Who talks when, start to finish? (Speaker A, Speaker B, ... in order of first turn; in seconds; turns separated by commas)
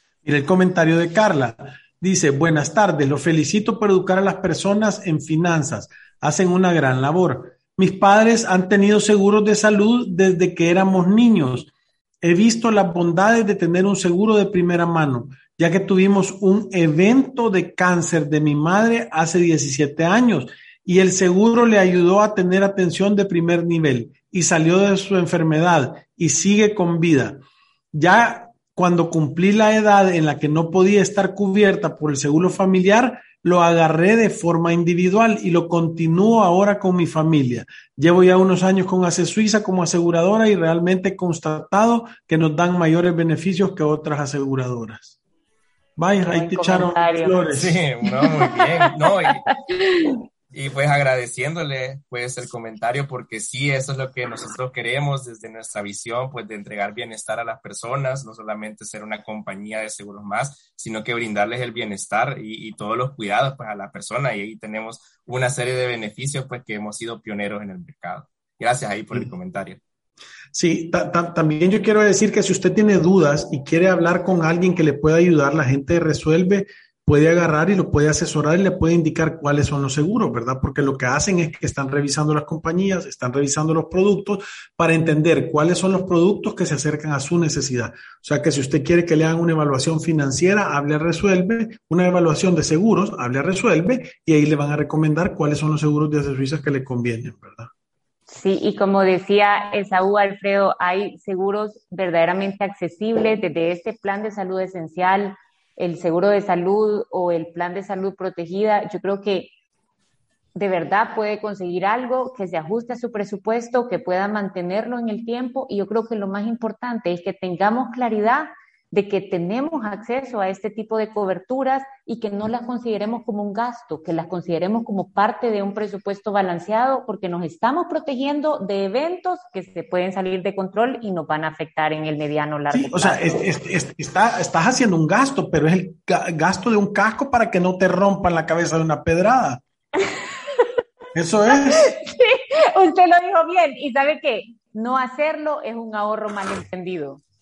Speaker A: 0.2-11.7, Speaker A: 12.2-27.4, Speaker A: 27.9-45.2, Speaker A: 46.0-47.8, Speaker B: 46.2-47.4, Speaker C: 47.5-49.5, Speaker B: 48.0-48.6, Speaker B: 49.2-50.1, Speaker C: 50.5-69.8, Speaker A: 70.5-97.7, Speaker B: 98.3-109.5, Speaker B: 110.5-133.4, Speaker A: 132.7-139.6, Speaker A: 141.1-141.9, Speaker B: 141.5-147.2